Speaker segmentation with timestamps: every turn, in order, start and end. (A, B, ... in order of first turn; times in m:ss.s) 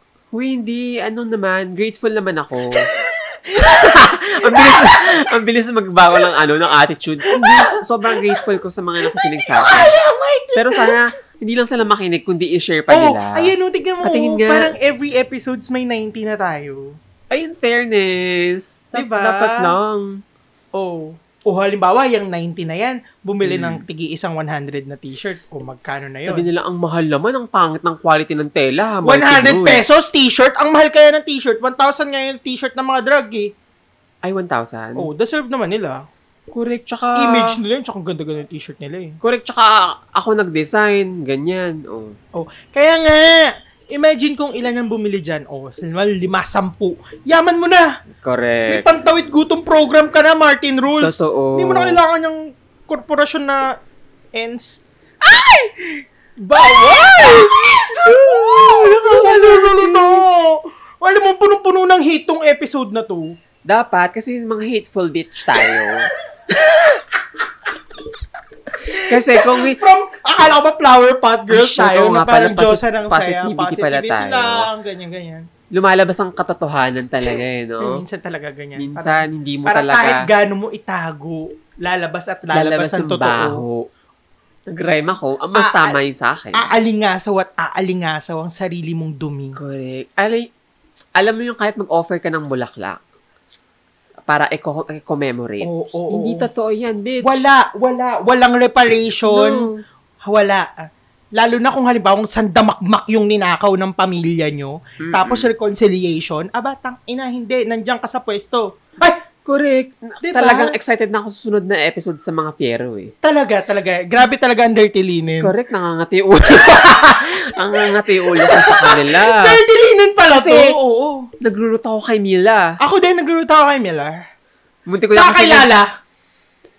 0:00.3-0:02.9 A
0:03.0-0:05.0 B
0:03.6-0:09.9 A
0:07.3-0:08.5 B
0:09.1-0:11.0 B
0:10.6-0:14.7 A
0:12.9-0:17.0 B
0:17.3-0:20.1 A
0:19.0-0:19.7 B
0:20.8-0:26.5 B
0:23.4-0:23.8 A
0:26.2-0:29.8 A
0:29.0-0:33.5 B
0:34.2-0:35.1 A
0:35.0-0:36.0 B
0:36.5-0:37.6 A
0:37.2-0:39.2 B
0:39.2-0:42.2 A
0:42.4-0:47.9 B
0:48.2-0:48.8 A
0:48.7-0:53.6 B
0:51.0-0:52.0 A
0:54.4-0:54.8 B
0:55.2-0:55.7 A
0:56.4-1:00.2 A
0:56.6-1:03.4 B
1:03.6-1:06.1 A
1:05.6-1:05.9 B
1:06.5-1:07.0 B
1:08.8-1:15.5 B
1:08.9-1:09.8 A
1:11.5-1:14.7 A
1:15.7-1:18.0 A
1:17.8-1:23.6 B
1:18.8-1:20.3 A
1:22.5-1:23.9 A
1:24.7-1:26.7 A
1:25.6-1:26.0 B
1:26.5-1:29.6 B
1:29.6-1:30.5 A
1:31.2-1:33.0 A
1:34.3-1:37.5 A
1:35.6-1:36.5 B
1:37.2-1:39.7 B
1:39.3-1:39.8 A
1:40.2-1:49.2 B
1:45.0-1:45.5 A
1:49.5-1:53.1 A
1:50.2-1:50.8 B
1:53.2-1:55.5 B
1:55.4-1:59.6 A
1:56.8-2:01.3 B
2:00.3-2:00.7 A
2:01.4-2:02.8 A
2:02.8-2:04.2 B
2:04.9-2:05.8 A
2:05.1-2:05.9 B